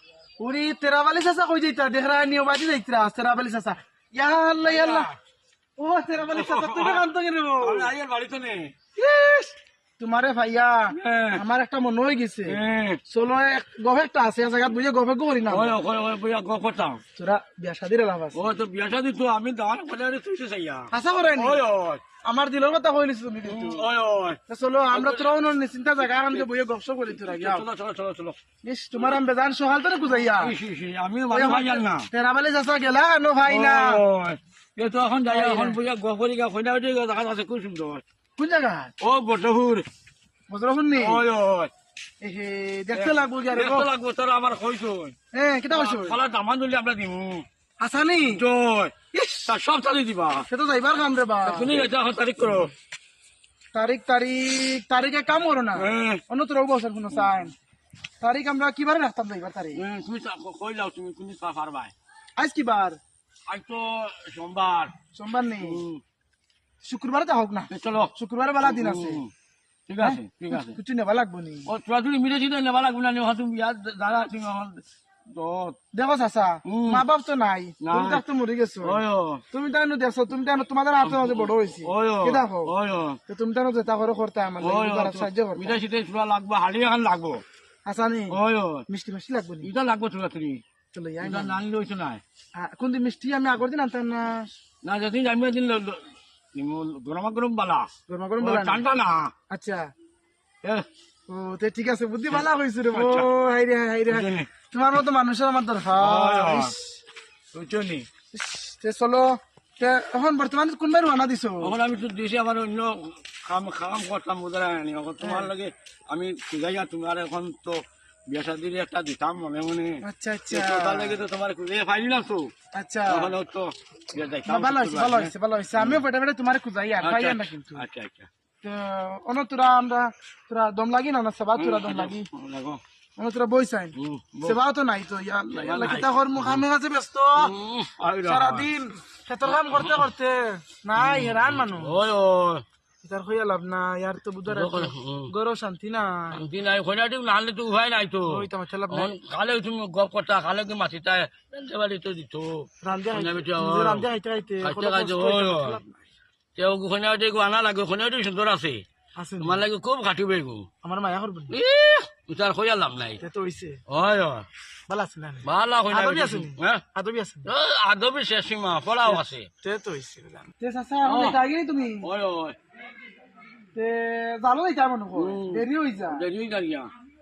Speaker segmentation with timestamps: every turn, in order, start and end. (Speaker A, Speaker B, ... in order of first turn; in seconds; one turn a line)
Speaker A: 0.4-5.1
Speaker B: 4.6-5.1
Speaker A: 5.8-7.9
Speaker B: 6.3-7.1
Speaker B: 7.6-8.7
Speaker A: 8.9-15.8
Speaker B: 10.9-11.4
Speaker B: 12.5-13.0
Speaker B: 15.5-17.0
Speaker A: 17.1-18.4
Speaker B: 18.3-22.0
Speaker A: 20.9-21.6
Speaker A: 22.2-23.9
Speaker B: 23.4-24.4
Speaker A: 24.5-27.6
Speaker B: 24.9-25.3
Speaker B: 26.0-26.4
Speaker B: 27.2-28.4
Speaker A: 28.6-30.5
Speaker B: 28.9-29.2
Speaker B: 30.1-32.1
Speaker A: 31.3-34.0
Speaker B: 33.5-38.0
Speaker A: 35.3-35.8
Speaker A: 38.4-38.9
Speaker B: 39.0-39.9
Speaker A: 40.5-41.2
Speaker B: 41.0-41.7
Speaker A: 42.2-43.9
Speaker B: 42.9-45.1
Speaker A: 45.3-46.2
Speaker B: 45.7-47.4
Speaker A: 47.8-48.4
Speaker B: 48.2-48.9
Speaker A: 49.1-49.5
Speaker B: 49.5-50.5
Speaker A: 50.5-51.8
Speaker B: 51.4-52.7
Speaker A: 53.7-57.5
Speaker B: 55.7-56.2
Speaker A: 58.2-59.8
Speaker B: 59.7-61.9
Speaker A: 62.4-63.0
Speaker B: 63.5-64.9
Speaker A: 65.1-65.8
Speaker B: 65.6-66.0
Speaker A: 66.8-69.2
Speaker B: 67.7-69.3
Speaker B: 69.9-70.8
Speaker A: 70.0-71.7
Speaker B: 71.7-75.8
Speaker A: 75.9-82.7
Speaker B: 76.7-77.0
Speaker B: 77.8-78.2
Speaker B: 78.8-79.4
Speaker B: 81.0-83.2
Speaker A: 83.3-85.8
Speaker B: 84.6-87.4
Speaker A: 87.8-89.7
Speaker B: 88.3-88.8
Speaker B: 89.6-90.6
Speaker A: 90.9-91.6
Speaker B: 91.2-92.2
Speaker A: 92.6-94.5
Speaker B: 94.8-99.3
Speaker A: 98.1-98.8
Speaker A: 99.5-99.9
Speaker A: 101.3-107.0
Speaker B: 102.3-103.3
Speaker B: 104.1-104.5
Speaker B: 105.9-106.7
Speaker B: 107.5-108.1
Speaker A: 108.3-111.8
Speaker B: 111.6-122.5
Speaker A: 115.2-115.5
Speaker A: 120.0-121.2
Speaker A: 122.7-123.3
Speaker B: 123.1-126.0
Speaker A: 124.4-127.8
Speaker B: 127.0-128.3
Speaker A: 128.6-132.3
Speaker B: 131.6-132.8
Speaker A: 133.2-137.5
Speaker B: 133.9-134.6
Speaker B: 135.5-136.6
Speaker B: 137.3-138.7
Speaker A: 138.2-142.0
Speaker B: 139.4-140.0
Speaker B: 140.9-142.6
Speaker A: 143.0-146.4
Speaker B: 144.5-145.3
Speaker B: 146.3-154.1
Speaker A: 148.3-149.1
Speaker A: 152.8-156.0
Speaker B: 154.6-155.8
Speaker B: 156.6-158.8
Speaker A: 159.2-159.6
Speaker B: 159.4-160.7
Speaker A: 160.8-161.6
Speaker B: 161.5-163.2
Speaker A: 163.2-163.8
Speaker B: 163.9-164.5
Speaker A: 164.9-167.5
Speaker B: 165.4-166.8
Speaker B: 167.4-169.5
Speaker A: 169.1-172.1
Speaker B: 171.0-171.4
Speaker B: 172.0-172.6
Speaker A: 173.7-176.2
Speaker B: 175.1-176.9